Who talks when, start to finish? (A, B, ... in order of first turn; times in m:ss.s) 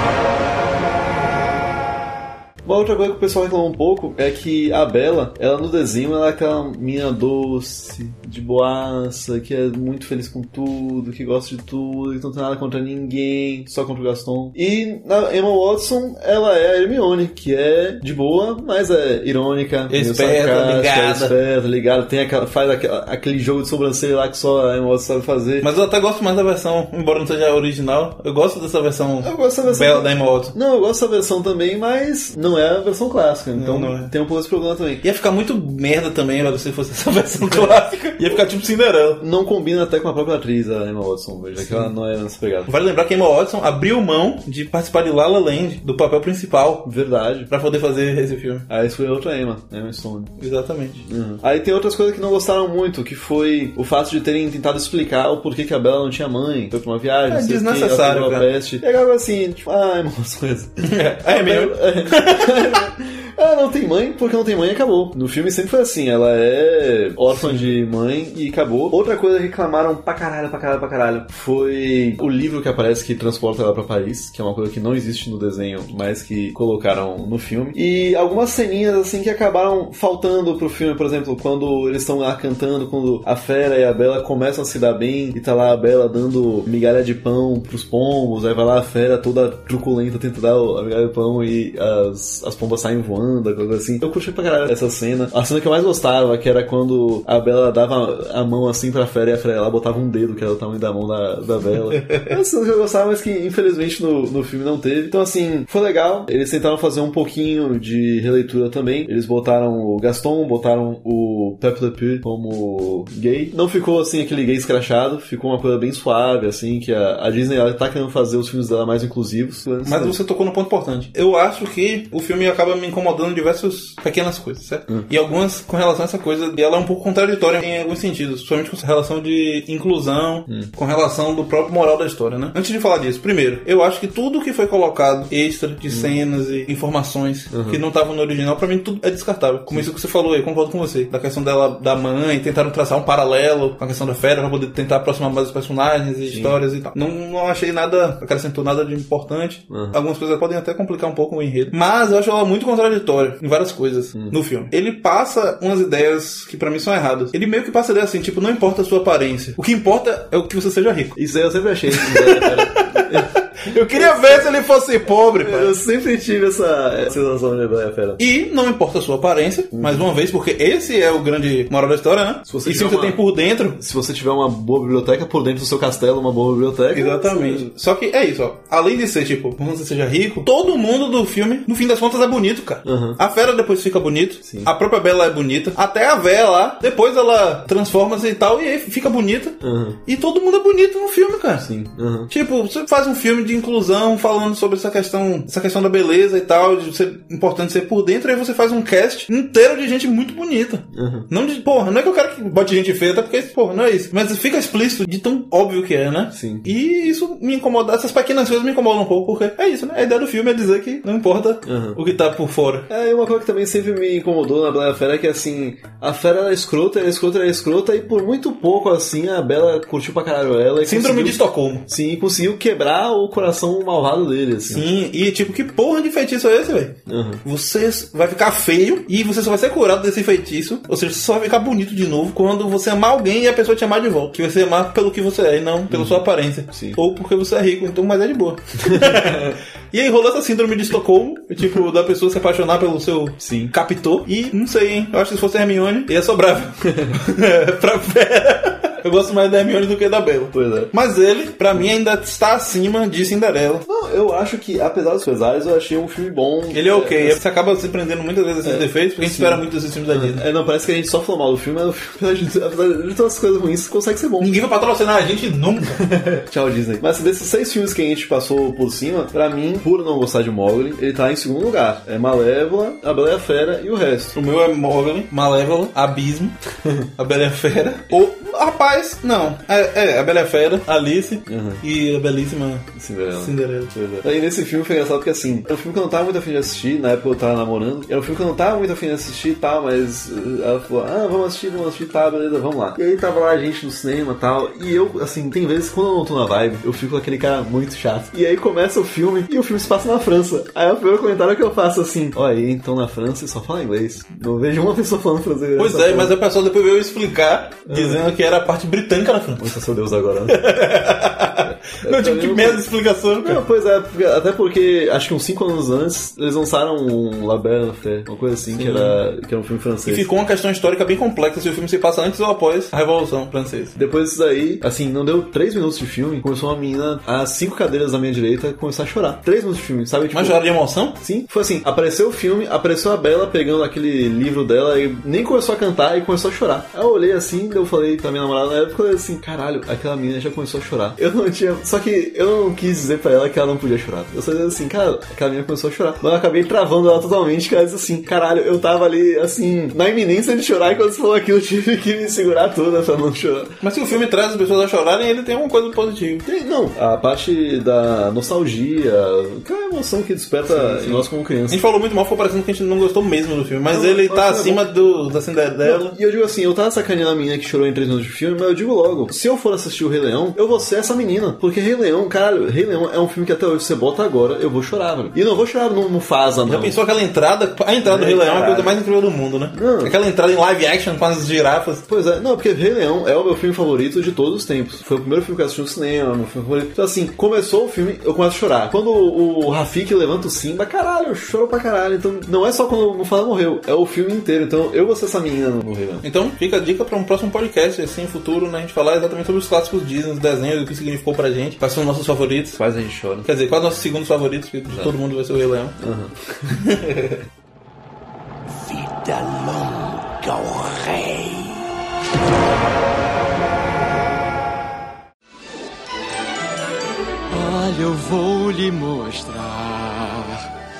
0:02.6-0:25.7 A
0:19.9-0:21.3 B
0:25.6-0:30.5 B
0:29.2-0:35.0 A
0:33.6-0:34.1 B
0:35.0-0:39.2 B
0:37.5-0:37.7 A
0:39.2-0:42.7 A
0:41.6-0:41.9 B
0:42.7-0:46.9 B
0:46.8-0:47.5 A
0:47.5-0:48.7 B
0:48.7-0:50.3 A
0:50.4-0:51.0 B
0:51.0-2:00.2 A
0:57.3-0:58.5 B
1:00.8-1:02.8 B
1:07.3-1:07.7 B
1:41.9-1:42.4 B
1:59.8-2:41.2 B
2:15.9-2:16.1 A
2:17.5-2:17.8 A
2:26.2-2:26.6 A
2:29.7-2:30.0 A
2:41.2-2:44.6 A
2:41.9-2:45.7 B
2:45.4-2:48.2 A
2:48.2-2:53.8 B
2:49.7-2:50.1 A
2:52.4-2:53.2 A
2:53.7-2:57.6 A
2:56.9-3:11.7 B
3:02.8-3:03.2 A
3:04.4-3:04.7 A
3:09.6-3:10.0 A
3:11.6-3:12.3 A
3:12.3-3:32.9 B
3:20.9-3:21.3 A
3:26.3-3:26.7 A
3:31.6-3:32.0 A
3:32.9-3:44.9 A
3:40.8-3:41.9 B
3:44.7-4:13.8 B
3:47.1-3:47.4 A
3:55.9-3:57.0 A
3:58.8-3:59.6 A
4:03.4-4:03.7 A
4:06.9-4:07.2 A
4:10.5-4:10.9 A
4:13.8-4:17.4 A
4:16.7-4:20.4 B
4:18.6-4:24.6 A
4:24.4-4:26.0 B
4:26.0-4:34.4 A
4:34.3-4:36.6 B
4:37.2-4:43.9 B
4:41.4-4:41.8 A
4:42.9-5:06.3 A
5:05.8-5:09.8 B
5:07.9-5:08.2 A
5:09.6-5:10.6 A
5:10.5-5:13.6 B
5:11.7-5:20.3 A
5:18.7-5:19.2 B
5:20.0-5:24.0 B
5:24.0-5:53.8 A
5:30.3-5:31.2 B
5:53.8-5:56.4 B
5:56.4-6:01.8 A
6:00.7-6:06.1 B
6:03.9-6:04.8 A
6:05.8-6:17.0 A
6:16.7-6:22.0 B
6:18.0-6:19.0 A
6:19.7-6:20.1 A
6:22.1-6:36.2 A
6:36.2-6:42.8 B
6:42.8-6:43.5 A
6:43.4-6:46.0 B
6:44.9-6:45.2 A
6:46.0-6:46.7 A
6:46.7-6:47.4 B
6:48.6-6:51.8 C
6:57.5-7:00.6 D